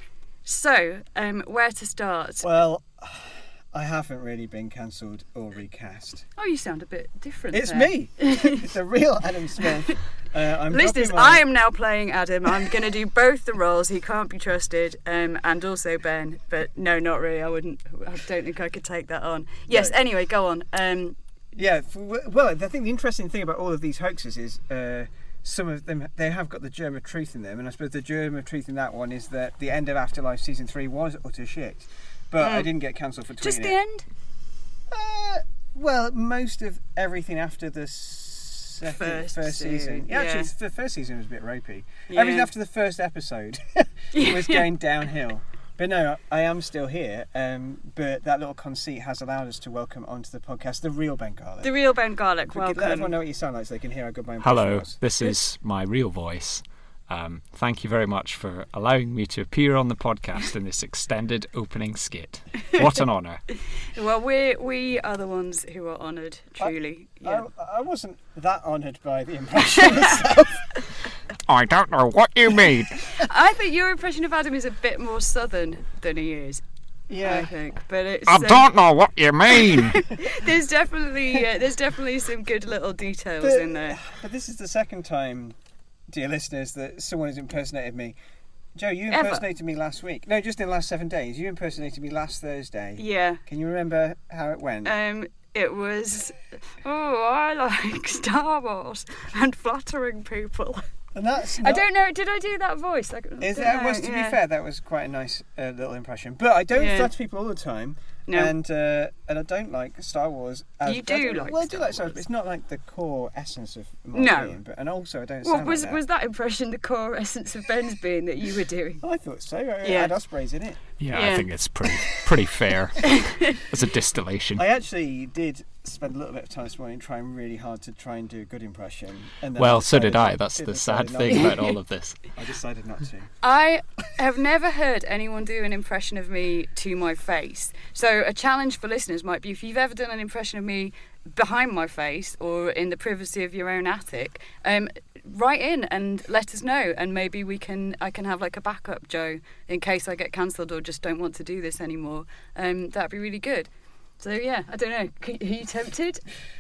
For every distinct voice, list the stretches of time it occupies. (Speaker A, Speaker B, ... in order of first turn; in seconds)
Speaker A: 0.4-2.5, 6.4-8.6, 9.6-9.9, 10.7-21.1, 32.4-32.7, 33.4-34.0, 38.8-40.5, 42.1-42.5, 44.1-44.7, 51.6-53.1, 63.9-67.5, 73.1-76.6, 77.2-78.7, 79.5-84.0, 89.1-89.5, 93.0-93.4, 94.8-100.9, 101.6-104.4, 106.7-107.1, 108.3-108.5, 110.8-112.2, 114.1-114.5, 115.4-119.0, 119.8-120.1, 121.1-121.5, 131.3-131.6, 133.4-156.2
Speaker B: 2.4-6.2, 7.5-11.4, 21.5-33.7, 34.9-51.7, 52.5-55.0, 67.2-70.7, 77.1-77.5, 83.4-85.6, 86.1-88.1, 88.7-94.9, 101.1-101.8, 103.4-116.0, 119.0-120.8, 124.5-131.6, 132.3-133.3
Speaker C: 54.4-63.4, 121.0-124.6, 129.6-132.2
Speaker D: 71.5-73.0, 78.3-80.0